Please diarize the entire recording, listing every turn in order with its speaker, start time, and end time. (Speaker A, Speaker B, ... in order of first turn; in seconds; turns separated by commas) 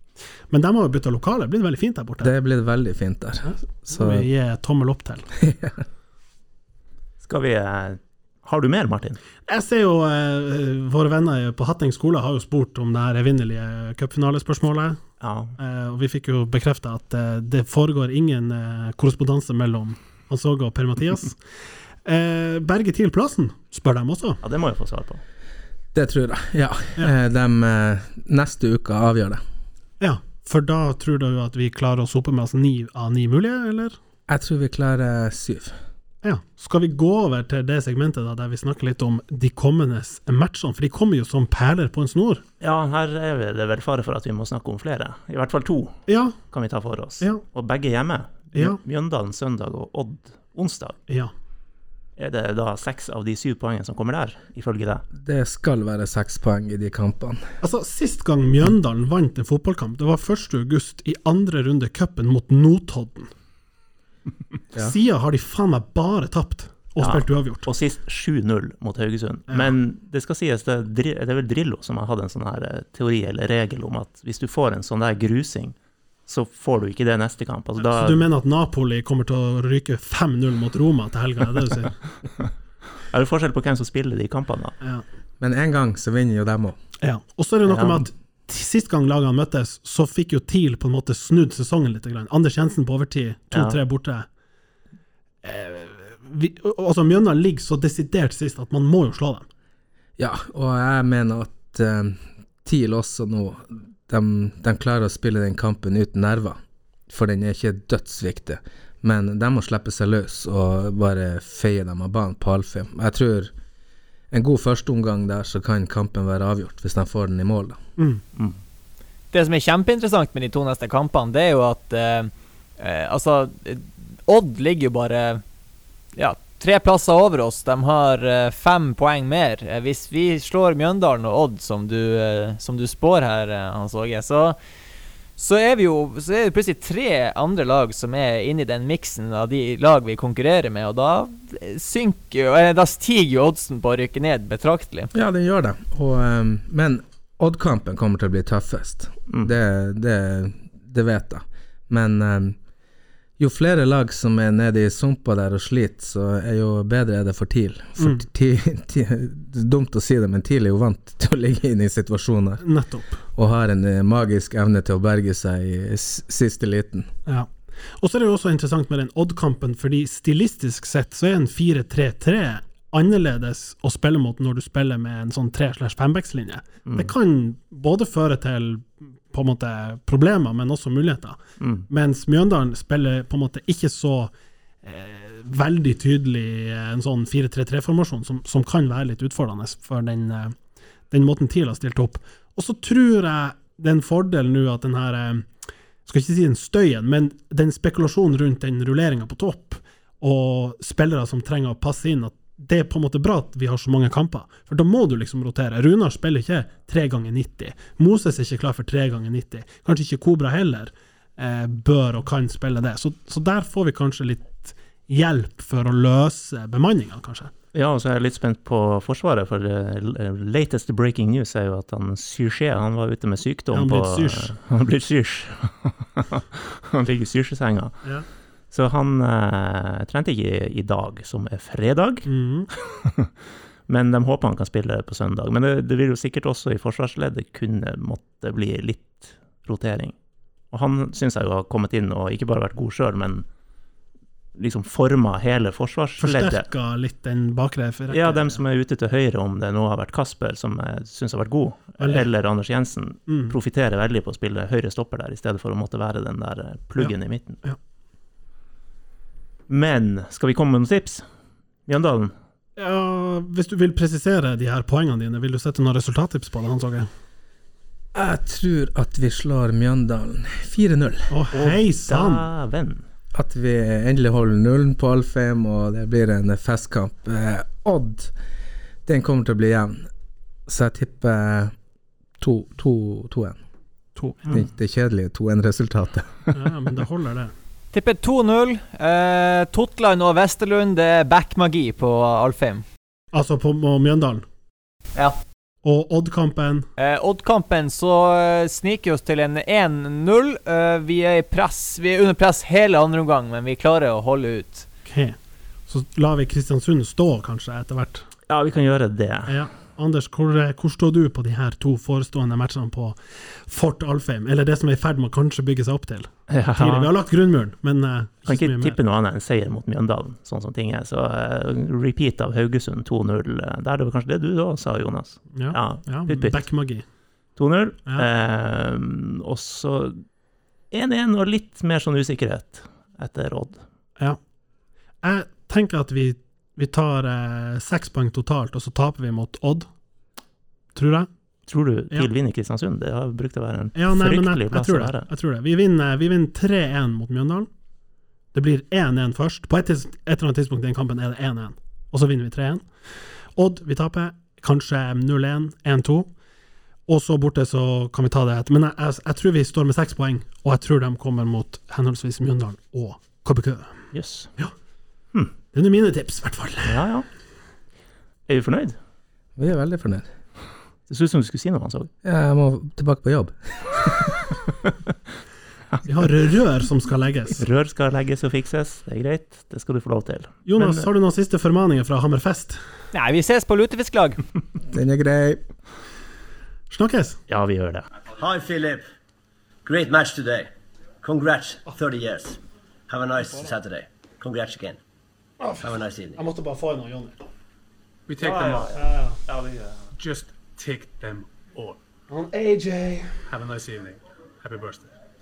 Speaker A: 0.5-2.3, Speaker B: 2.2-4.3, Speaker A: 3.4-5.3, Speaker B: 5.4-5.8, Speaker C: 7.2-9.2, Speaker A: 9.5-15.0, Speaker C: 15.2-15.6, Speaker A: 15.6-21.4, Speaker A: 22.0-24.4, Speaker C: 24.4-25.2, Speaker B: 25.9-29.4, Speaker A: 30.0-34.0, Speaker B: 34.3-35.8, Speaker A: 36.2-42.4, Speaker C: 42.6-51.0, Speaker A: 46.1-46.3, Speaker A: 48.5-48.8, Speaker C: 52.2-55.0, Speaker B: 55.1-57.4, Speaker A: 57.6-63.3, Speaker A: 64.8-67.7, Speaker C: 67.0-75.8, Speaker A: 69.5-69.7, Speaker C: 76.3-78.2, Speaker A: 77.8-82.0, Speaker C: 83.1-84.7, Speaker B: 85.4-86.8, Speaker A: 87.0-94.2, Speaker C: 87.7-88.1, Speaker C: 93.5-93.8, Speaker A: 95.4-99.5, Speaker B: 100.2-113.5, Speaker B: 114.3-117.8, Speaker D: 119.3-125.4, Speaker D: 126.2-134.6, Speaker D: 135.4-145.1, Speaker B: 145.1-152.6, Speaker B: 153.4-162.6, Speaker A: 162.6-163.2, Speaker B: 163.3-167.1, Speaker A: 167.2-181.4, Speaker C: 176.8-177.1, Speaker C: 181.6-181.9, Speaker A: 181.9-184.3, Speaker A: 184.8-190.5, Speaker A: 191.1-195.5, Speaker A: 196.1-217.5, Speaker C: 217.7-228.0, Speaker A: 223.7-224.5, Speaker C: 228.7-232.3, Speaker A: 232.2-232.7, Speaker C: 232.8-233.3, Speaker C: 233.9-240.1, Speaker C: 240.7-243.4, Speaker C: 244.6-246.7, Speaker A: 246.2-248.6, Speaker C: 248.1-257.6, Speaker A: 252.0-252.2, Speaker A: 253.3-253.5, Speaker A: 257.0-257.8, Speaker C: 259.7-261.2, Speaker C: 261.9-262.3, Speaker A: 262.8-267.1, Speaker B: 268.1-271.3, Speaker A: 271.3-272.5, Speaker C: 271.5-273.0, Speaker B: 273.3-278.3, Speaker B: 279.1-280.1, Speaker B: 280.7-281.7, Speaker B: 282.4-283.6, Speaker A: 284.2-284.6, Speaker B: 284.4-286.5, Speaker A: 286.5-287.5, Speaker D: 287.9-292.8, Speaker A: 293.3-294.4, Speaker A: 295.8-296.9, Speaker D: 297.0-304.9, Speaker A: 305.1-305.4, Speaker A: 305.9-308.2, Speaker C: 308.5-309.6, Speaker A: 309.5-318.9, Speaker C: 316.5-317.1, Speaker C: 318.5-326.6, Speaker A: 325.6-327.0, Speaker C: 327.6-330.2, Speaker C: 330.9-333.8, Speaker A: 335.2-339.9, Speaker A: 340.9-341.3, Speaker C: 341.7-345.3, Speaker A: 343.9-347.7, Speaker A: 348.5-352.9, Speaker A: 353.5-356.3, Speaker A: 357.1-363.9, Speaker C: 364.1-364.5, Speaker A: 365.7-367.0, Speaker C: 366.8-367.3, Speaker C: 368.5-369.0, Speaker B: 369.6-370.3, Speaker C: 371.1-372.1, Speaker B: 372.2-374.4, Speaker A: 376.1-377.6, Speaker C: 377.6-381.1, Speaker A: 380.6-382.8, Speaker D: 383.1-384.4, Speaker B: 384.9-385.6, Speaker A: 386.9-387.4, Speaker C: 387.5-388.1, Speaker E: 388.4-389.0, Speaker E: 389.8-390.7, Speaker E: 391.2-395.0, Speaker A: 395.6-397.4, Speaker E: 395.8-396.4, Speaker F: 398.3-399.0, Speaker C: 398.4-400.1, Speaker A: 398.9-399.4, Speaker F: 400.1-402.0, Speaker A: 402.3-403.4, Speaker F: 403.5-405.1